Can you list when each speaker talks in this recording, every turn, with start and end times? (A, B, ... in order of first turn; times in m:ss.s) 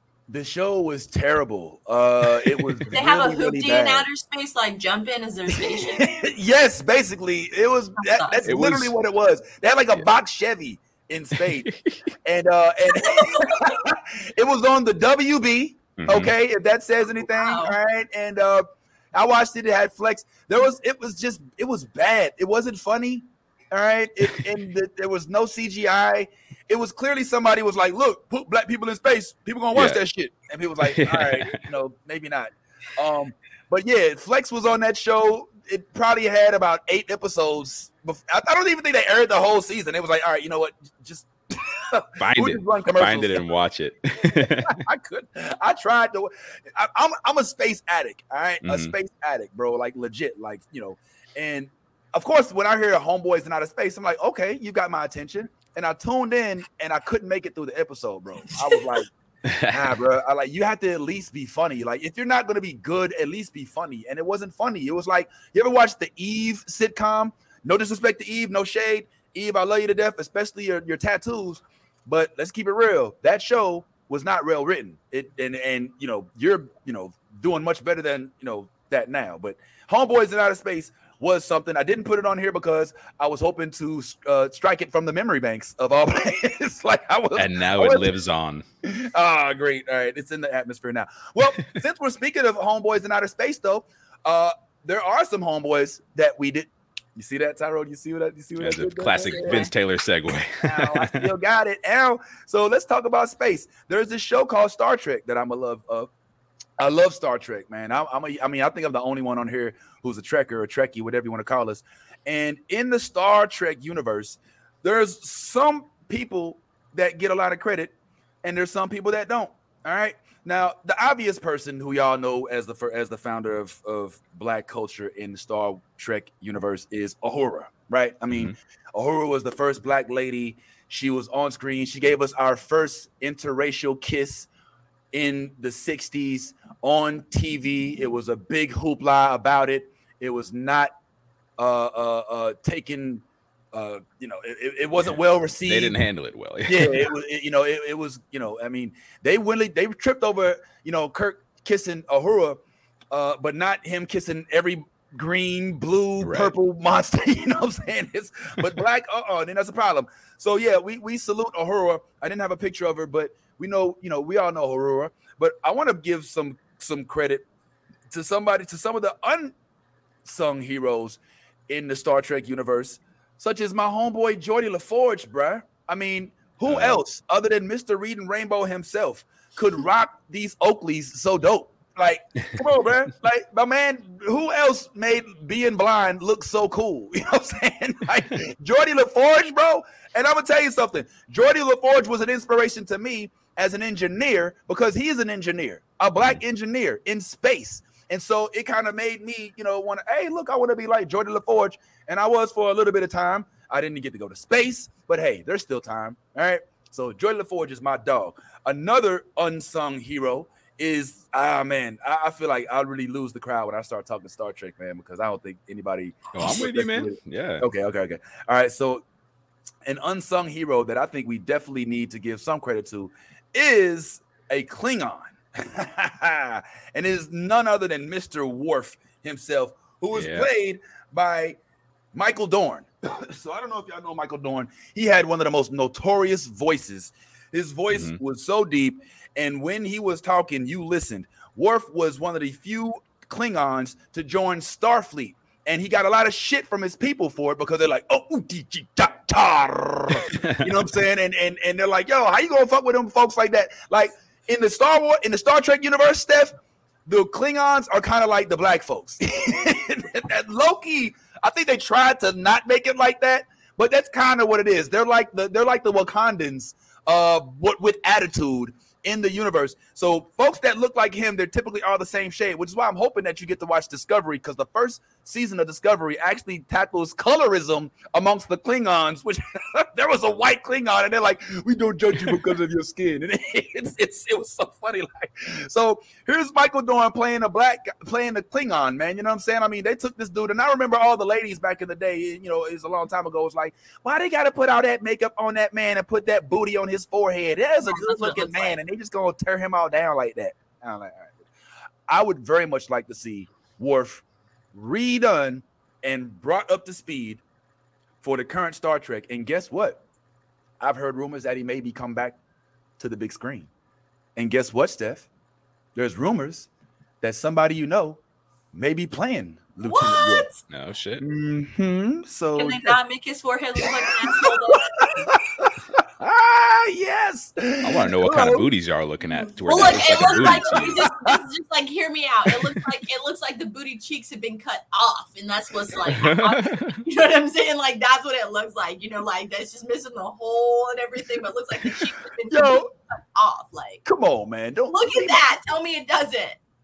0:00.3-0:04.1 A
0:02.3-0:02.8 B
0:02.9-0:06.2 C
0:05.6-0:11.7 A
0:08.0-0:08.5 C
0:08.5-0:09.0 B
0:11.4-0:12.1 B
0:12.2-0:43.4 A
0:13.0-0:13.7 C
0:16.0-0:16.3 B
0:17.2-0:17.8 C
0:29.7-0:30.0 B
0:30.8-0:31.6 B
0:42.2-0:44.8 B
0:44.3-0:59.1 A
0:48.6-0:48.9 B
0:59.5-0:59.9 B
0:59.6-1:28.1 A
1:27.4-1:28.6 B
1:28.8-1:39.7 A
1:38.6-1:41.3 B
1:39.2-1:39.7 C
1:40.6-1:46.1 A
1:46.8-2:14.5 A
2:15.1-2:20.9 A
2:21.6-2:26.0 A
2:25.0-2:27.1 B
2:26.7-2:32.6 A
2:33.1-2:47.4 A
2:36.2-2:36.5 B
2:48.1-2:49.6 A
2:50.2-3:39.0 A
2:56.6-2:57.0 B
3:36.3-3:37.7 B
3:39.8-3:51.6 A
3:50.1-3:50.5 B
3:52.1-4:16.5 A
3:57.9-3:58.2 B
4:17.1-5:01.4 A
4:42.1-4:42.6 B
4:57.8-4:58.8 C
5:02.1-5:07.4 A
5:08.2-5:10.0 A
5:10.8-5:12.4 A
5:13.0-5:13.7 A
5:14.4-5:15.3 A
5:16.0-5:16.7 A
5:17.2-5:18.2 A
5:18.7-5:20.5 A
5:19.8-5:20.6 C
5:20.7-5:21.2 B
5:21.2-5:23.0 A
5:22.6-5:24.9 C
5:23.8-5:28.7 A
5:27.8-5:31.1 B
5:29.6-5:44.0 C
5:31.0-5:31.4 A
5:36.1-5:37.0 B
5:42.5-5:42.9 A
5:44.0-5:45.5 A
5:44.9-5:46.6 C